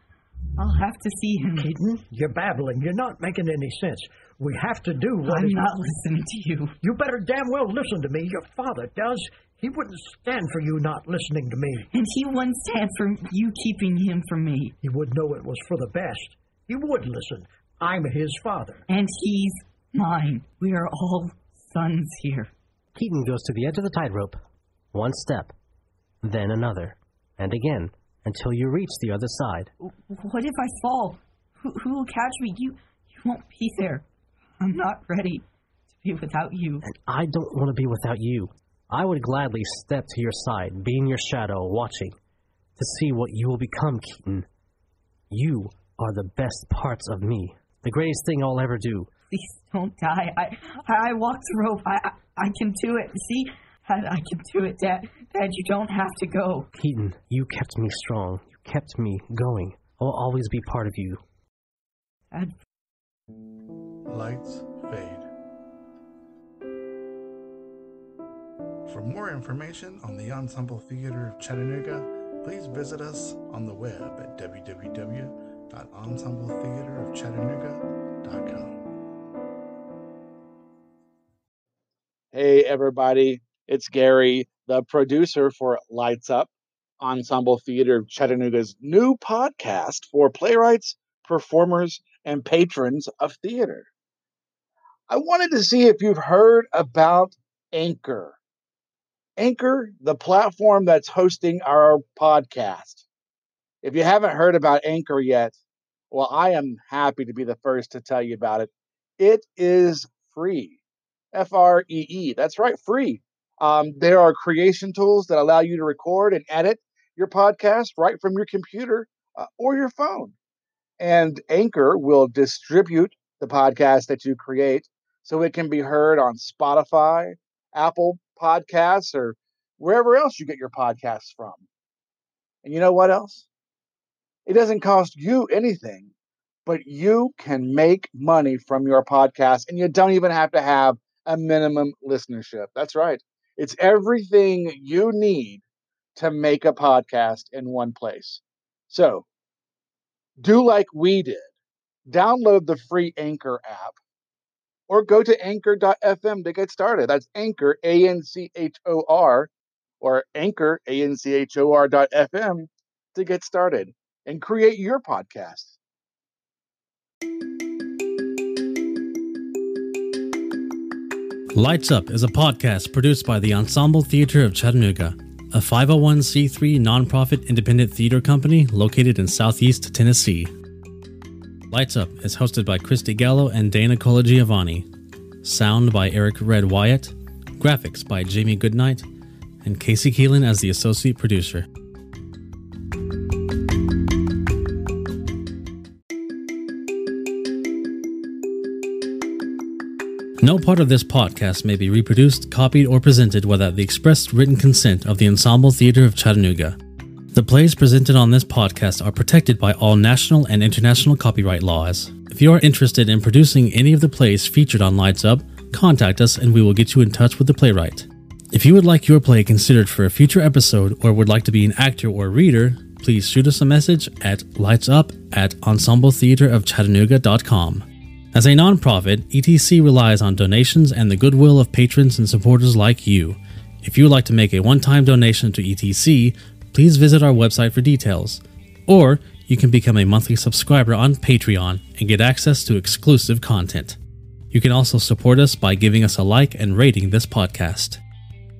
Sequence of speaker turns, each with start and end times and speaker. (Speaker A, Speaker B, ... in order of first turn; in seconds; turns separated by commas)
Speaker A: 0.6-1.7, Speaker B: 1.6-5.6, Speaker A: 5.3-6.7, Speaker B: 6.8-11.9, Speaker A: 11.9-14.7, Speaker B: 14.8-18.9, Speaker A: 18.9-22.5, Speaker C: 22.9-24.4, Speaker C: 24.9-25.5, Speaker C: 26.2-29.7, Speaker A: 29.8-34.0, Speaker A: 34.6-36.8, Speaker C: 36.8-42.1, Speaker C: 42.8-44.5, Speaker C: 45.3-49.1, Speaker A: 49.3-56.7, Speaker C: 56.7-61.2, Speaker D: 64.1-65.3, Speaker D: 68.9-78.8, Speaker E: 82.3-93.9, Speaker E: 95.1-98.4, Speaker E: 99.4-103.0, Speaker E: 103.8-105.5, Speaker E: 106.1-110.8, Speaker E: 111.3-120.3, Speaker E: 121.0-131.6, Speaker E: 132.6-133.4, Speaker E: 134.4-136.1, Speaker E: 136.7-145.6, Speaker E: 146.2-149.2, Speaker E: 150.4-151.5, Speaker E: 152.1-154.0, Speaker E: 154.9-165.7, Speaker F: 171.5-180.5, Speaker F: 181.7-184.9, Speaker F: 185.4-189.1, Speaker F: 189.6-191.7, Speaker F: 200.4-206.8, Speaker F: 207.3-244.0, Speaker F: 244.5-248.0